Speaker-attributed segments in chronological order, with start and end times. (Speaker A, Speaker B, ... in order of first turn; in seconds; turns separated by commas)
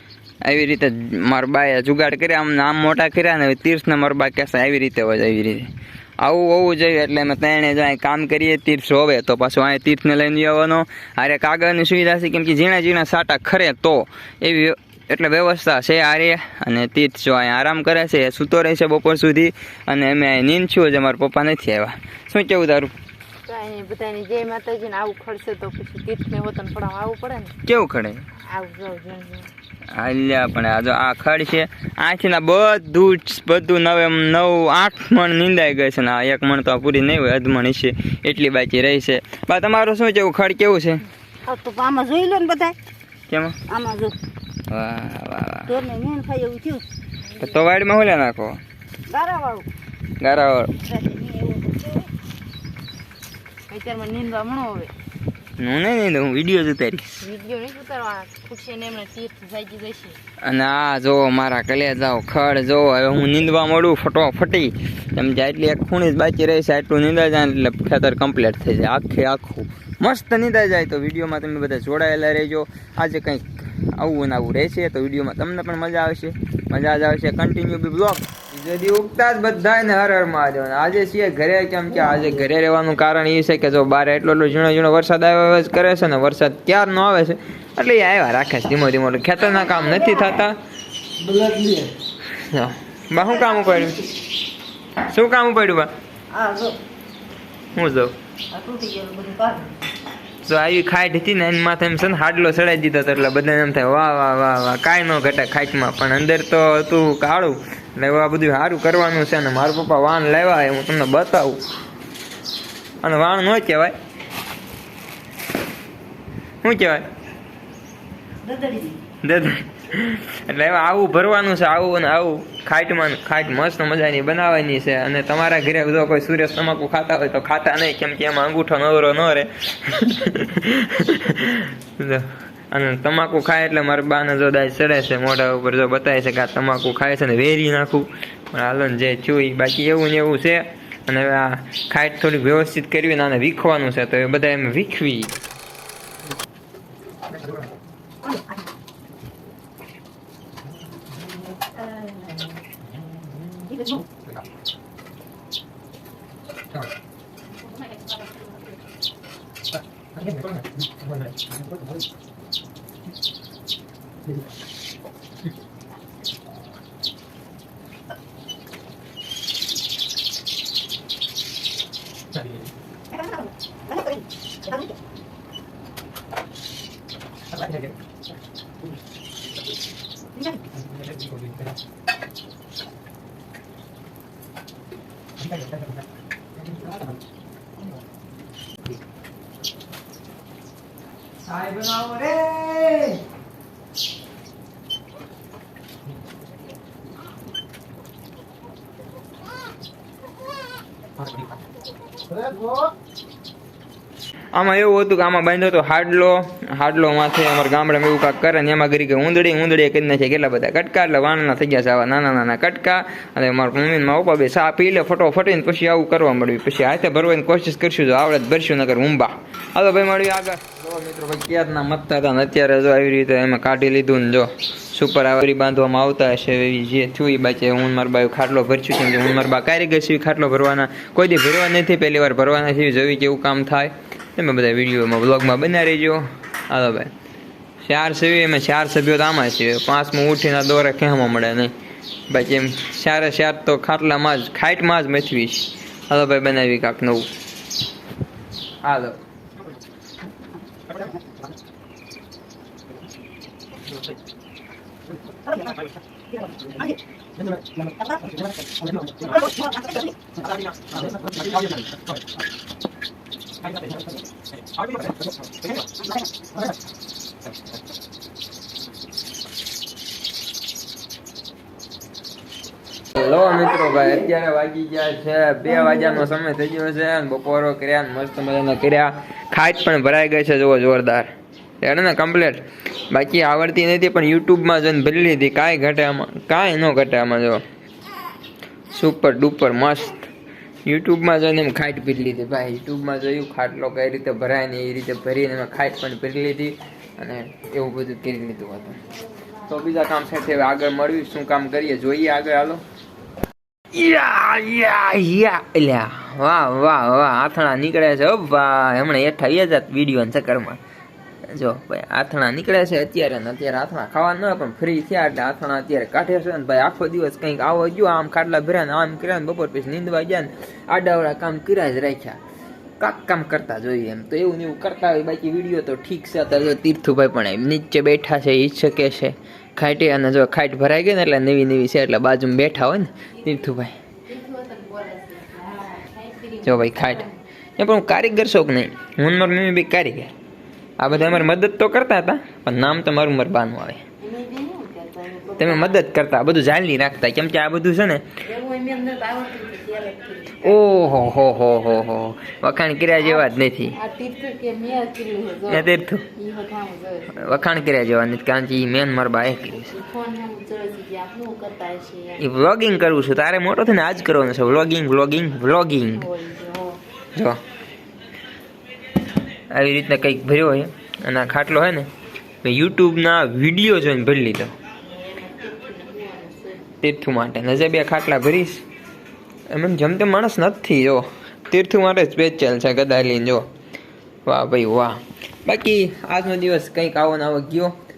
Speaker A: 0.4-22.9, Speaker B: 23.5-27.6, Speaker A: 27.6-28.2, Speaker B: 28.4-29.5, Speaker A: 29.9-41.0, Speaker C: 41.5-42.8, Speaker A: 43.3-43.6, Speaker C: 43.7-44.1, Speaker A: 44.7-45.7, Speaker C: 45.7-46.8, Speaker A: 47.4-48.6, Speaker C: 49.1-49.7, Speaker A: 50.2-50.7, Speaker C: 50.8-52.1, Speaker B: 53.7-54.9, Speaker A: 55.6-57.2, Speaker B: 57.2-60.2, Speaker A: 60.4-90.6, Speaker A: 92.4-94.0, Speaker A: 95.0-95.9, Speaker C: 96.3-96.8, Speaker A: 97.7-98.1, Speaker C: 98.5-99.8, Speaker A: 100.4-111.6, Speaker A: 113.0-114.0, Speaker A: 116.6-117.0, Speaker C: 118.4-119.0, Speaker A: 119.2-145.3, Speaker C: 153.7-154.0, Speaker C: 173.9-174.2, Speaker A: 191.4-193.2, Speaker A: 204.5-237.1, Speaker A: 237.8-241.7, Speaker A: 242.3-247.3, Speaker A: 248.8-249.2, Speaker C: 259.3-260.0, Speaker A: 273.2-287.6, Speaker A: 288.9-290.2, Speaker A: 290.9-299.0, Speaker A: 299.7-302.8, Speaker A: 303.9-310.8, Speaker A: 311.4-322.4, Speaker A: 323.0-334.0, Speaker B: 334.2-337.3, Speaker A: 336.6-340.3, Speaker A: 341.0-344.0, Speaker B: 341.1-341.5, Speaker B: 344.2-346.0, Speaker A: 345.6-348.2, Speaker B: 348.4-350.8, Speaker A: 350.6-354.0, Speaker B: 353.2-357.5, Speaker A: 355.7-356.2, Speaker A: 357.3-360.0, Speaker B: 359.9-362.4, Speaker A: 362.4-366.3, Speaker B: 366.2-367.0, Speaker A: 369.7-372.1, Speaker A: 372.6-374.7, Speaker B: 375.1-376.9, Speaker A: 377.0-378.8, Speaker A: 379.7-383.7, Speaker A: 384.5-387.9